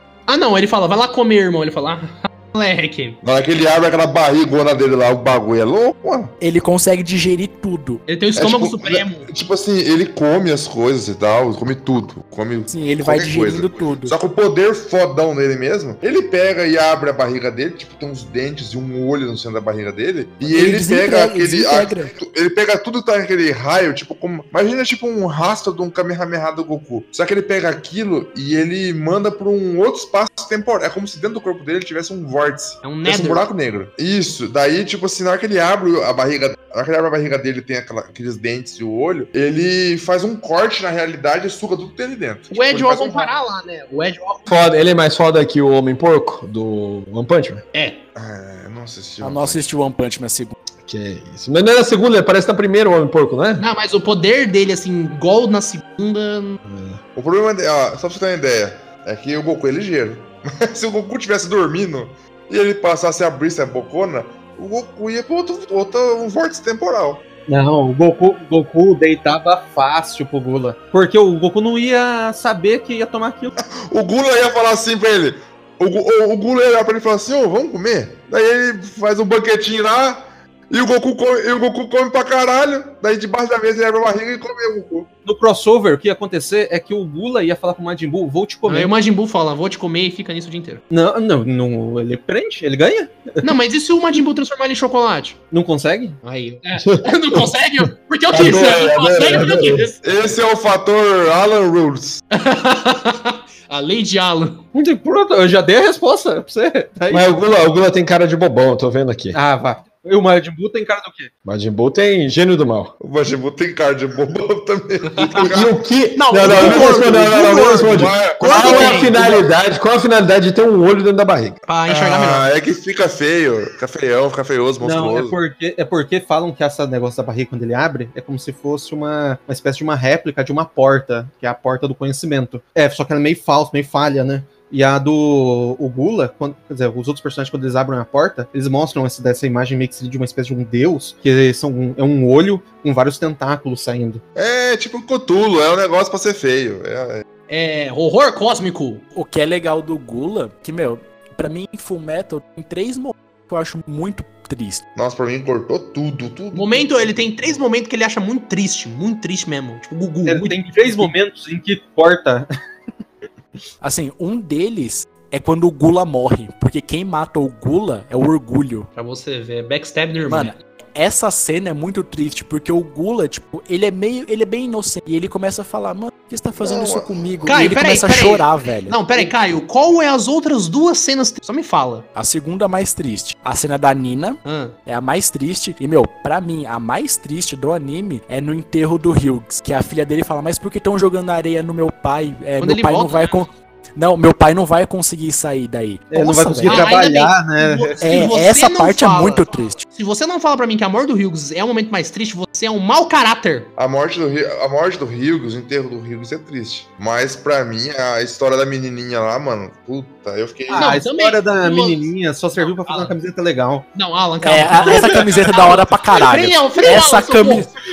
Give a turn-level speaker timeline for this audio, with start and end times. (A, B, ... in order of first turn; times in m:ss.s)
0:00.3-0:03.2 A
0:03.2-0:06.3 B
0:06.4-0:08.0 C
0:08.1-0:09.3 A
0:08.4-0:43.3 B
0:12.7-0:14.2 C
0:20.5-0:22.1 C
0:32.8-0:33.4 A
0:42.5-0:44.4 A
0:44.5-0:47.6 D
0:47.7-0:48.0 A
0:48.2-0:49.6 B
0:49.2-0:50.6 C
0:50.8-0:53.6 D
0:53.6-0:56.6 A
0:56.6-0:57.0 D
0:57.2-1:07.2 B
1:07.5-1:13.5 E
1:13.6-1:25.1 B
1:25.2-1:28.9 E
1:28.7-1:30.8 A
1:30.9-1:33.4 E
1:33.4-1:35.4 A
1:35.5-1:36.2 E
1:36.2-1:40.0 A
1:36.8-1:37.4 D
1:38.3-1:39.9 D
1:38.5-1:42.2 B
1:42.3-1:44.6 A
1:44.7-1:47.3 E
1:47.1-1:49.4 D
1:49.3-1:51.3 E
1:51.4-1:52.9 D
1:53.0-1:55.8 B
1:55.2-1:55.5 A
1:55.4-2:01.6 D
1:56.2-1:59.4 A
1:56.5-1:57.9 E
1:56.5-1:56.9 B
1:57.7-1:59.0 B
1:58.6-1:59.4 E
2:01.7-2:02.5 A
2:01.9-2:05.4 B
2:04.8-2:24.2 E
2:24.4-2:27.2 B
2:27.5-2:29.0 A
2:29.1-2:34.8 C
2:35.0-2:37.3 B
2:36.5-2:41.1 A
2:40.3-2:42.5 E
2:43.8-2:48.9 C
2:49.0-2:50.6 A
2:50.3-2:59.0 C
2:56.6-2:57.2 B
2:57.5-3:02.1 A
3:02.2-3:16.9 C
3:04.4-3:04.8 A
3:12.6-3:13.4 A
3:16.1-3:18.0 E
3:16.6-3:23.7 A
3:18.0-3:19.8 C
3:23.8-3:30.9 B
3:30.7-3:33.9 E
3:30.8-3:33.2 A
3:34.0-3:37.7 A
3:34.4-3:37.7 C
3:34.9-3:35.2 E